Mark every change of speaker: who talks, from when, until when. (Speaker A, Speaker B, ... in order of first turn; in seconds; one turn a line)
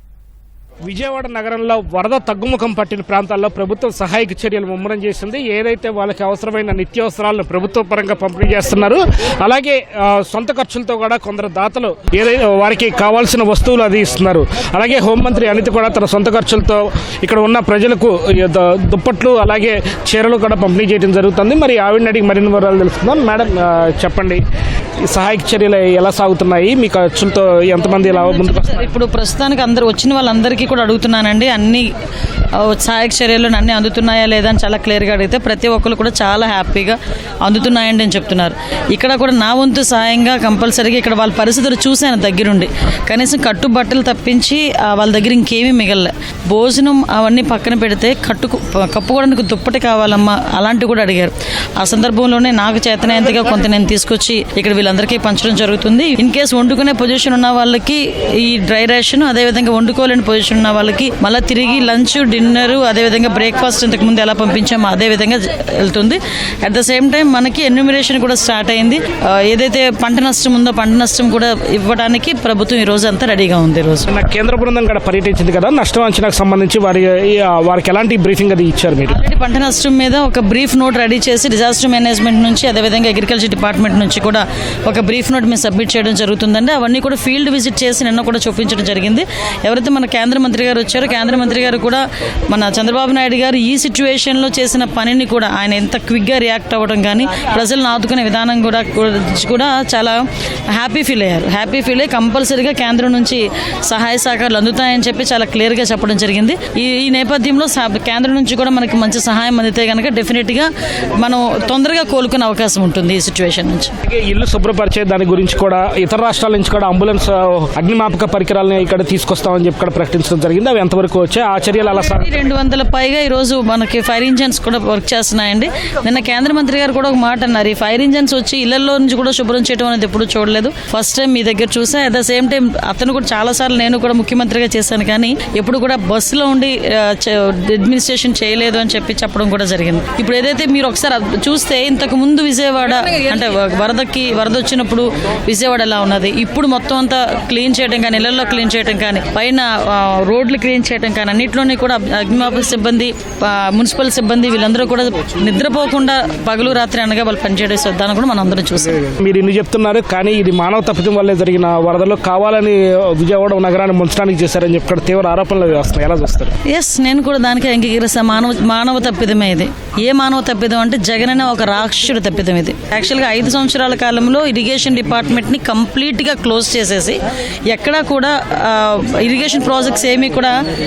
Speaker A: 0.9-24.4
Speaker A: 25.0-28.9
Speaker B: 28.1-31.9
Speaker B: 32.6-74.1
Speaker A: 74.1-79.2
Speaker B: 79.1-100.2
Speaker B: 100.7-113.9
Speaker A: 114.1-122.3
Speaker B: 121.9-159.1
Speaker A: 159.0-166.5
Speaker B: 166.7-180.6